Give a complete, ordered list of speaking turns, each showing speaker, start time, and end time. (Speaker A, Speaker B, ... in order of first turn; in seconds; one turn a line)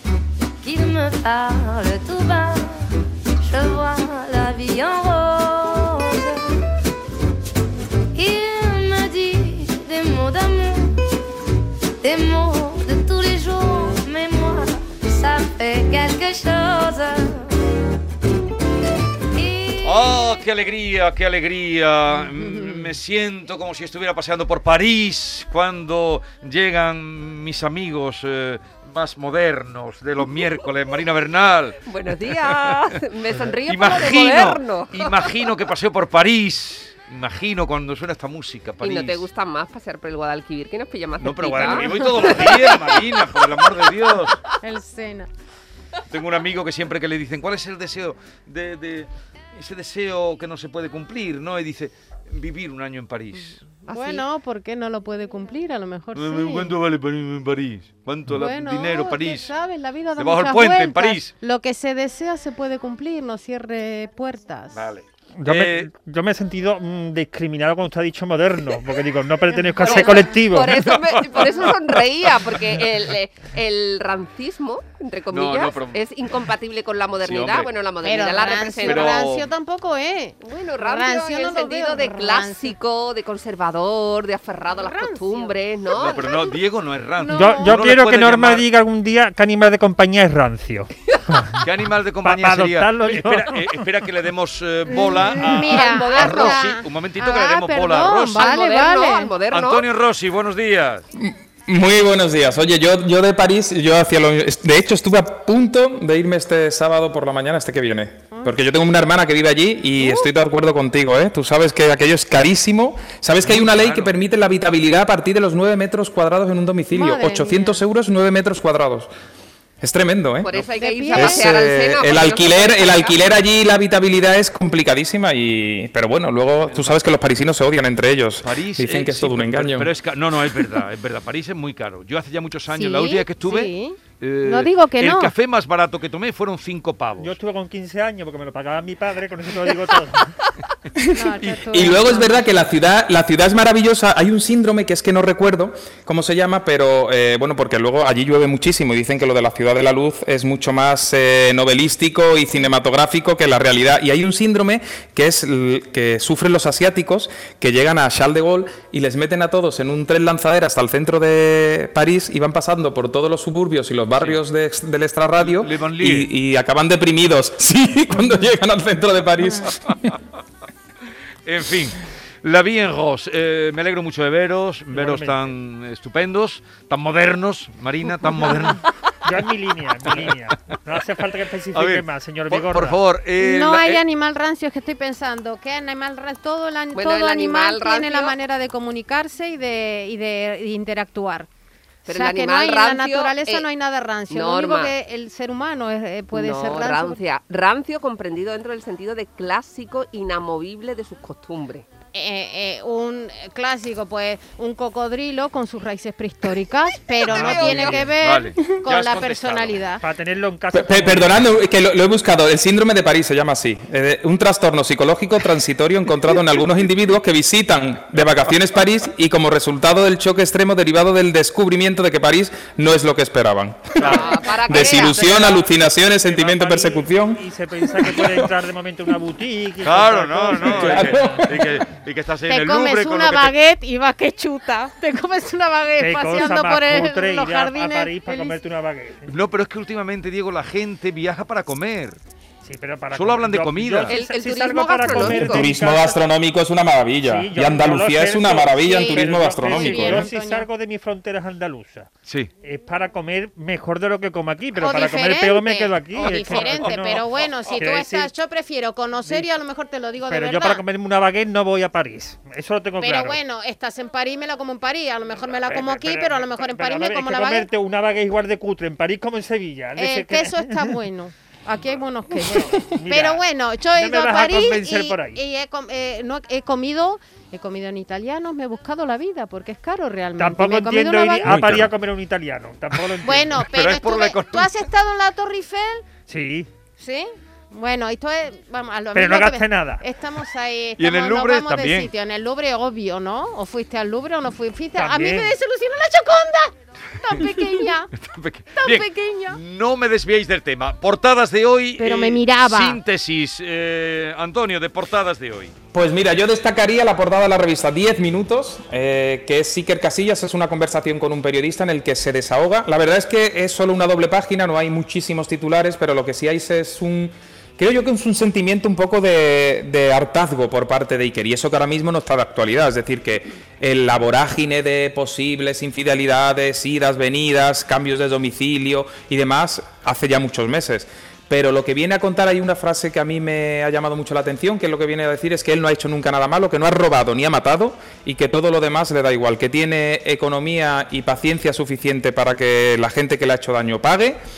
Speaker A: 0.6-2.8
Speaker A: 3.4-6.4
Speaker A: 8.1-11.0
Speaker A: 12.0-17.5
Speaker A: 19.3-20.3
Speaker B: 19.8-39.2
Speaker C: 22.2-23.0
Speaker D: 31.9-35.3
Speaker D: 38.8-43.1
Speaker B: 41.2-44.5
Speaker C: 41.6-42.8
Speaker C: 44.6-45.3
Speaker B: 46.1-53.8
Speaker D: 53.8-54.2
Speaker C: 53.9-56.8
Speaker B: 56.1-59.5
Speaker C: 58.3-64.8
Speaker B: 60.2-61.3
Speaker B: 64.7-65.9
Speaker E: 65.4-70.8
Speaker C: 69.6-70.2
Speaker D: 69.8-79.2
Speaker B: 70.7-71.7
Speaker B: 75.3-76.0
Speaker B: 77.2-77.7
Speaker C: 78.0-82.7
Speaker B: 78.8-79.5
Speaker D: 80.4-86.2
Speaker C: 84.7-86.6
Speaker B: 85.9-88.6
Speaker C: 87.2-87.8
Speaker E: 87.3-91.6
Speaker B: 91.5-98.6
Speaker E: 92.2-93.8
Speaker C: 94.9-99.3
Speaker D: 95.4-96.6
Speaker D: 98.3-99.8
Speaker B: 99.5-101.0
Speaker F: 101.2-119.1
Speaker C: 110.0-110.3
Speaker B: 113.4-114.1
Speaker C: 116.9-117.8
Speaker F: 119.8-120.5
Speaker D: 120.4-123.2
Speaker C: 120.8-121.5
Speaker F: 121.1-129.9
Speaker B: 128.4-137.3
Speaker C: 132.7-135.3
Speaker E: 137.2-140.3
Speaker F: 141.0-170.2
Speaker C: 141.1-142.5
Speaker B: 141.4-141.9
Speaker B: 165.4-166.3
Speaker B: 171.4-178.8
Speaker E: 174.9-175.4
Speaker E: 179.2-183.0
Speaker B: 181.7-184.0
Speaker C: 183.4-191.5
Speaker D: 186.9-188.3
Speaker D: 192.1-193.7
Speaker C: 192.1-197.2
Speaker D: 194.3-194.9
Speaker D: 196.3-201.8
Speaker C: 202.1-210.0
Speaker E: 207.3-208.0
Speaker B: 207.4-209.8
Speaker D: 207.5-208.0
Speaker E: 210.0-211.4
Speaker F: 210.7-228.5
Speaker D: 224.0-225.6
Speaker C: 224.7-225.1
Speaker E: 226.2-231.4
Speaker B: 229.8-233.6
Speaker F: 230.7-231.8
Speaker C: 232.5-238.6
Speaker E: 236.0-239.3
Speaker B: 239.3-242.2
Speaker E: 242.6-246.2
Speaker B: 243.1-244.2
Speaker D: 244.1-245.7
Speaker F: 245.1-250.3
Speaker E: 247.2-252.1
Speaker C: 248.8-250.7
Speaker E: 252.6-257.2
Speaker C: 254.8-260.8
Speaker B: 256.3-257.2
Speaker E: 257.8-258.3
Speaker E: 260.3-263.4
Speaker C: 263.0-267.7
Speaker E: 265.7-270.9
Speaker C: 269.9-281.9
Speaker E: 272.4-275.4
Speaker E: 280.4-283.6
Speaker B: 281.5-281.9
Speaker C: 283.2-286.0
Speaker B: 283.6-284.7
Speaker E: 286.3-286.7
Speaker C: 287.0-298.1
Speaker E: 289.1-290.0
Speaker B: 291.0-292.1
Speaker E: 294.9-295.5
Speaker B: 297.3-305.7
Speaker C: 298.7-299.6
Speaker C: 302.0-303.0
Speaker F: 305.9-344.4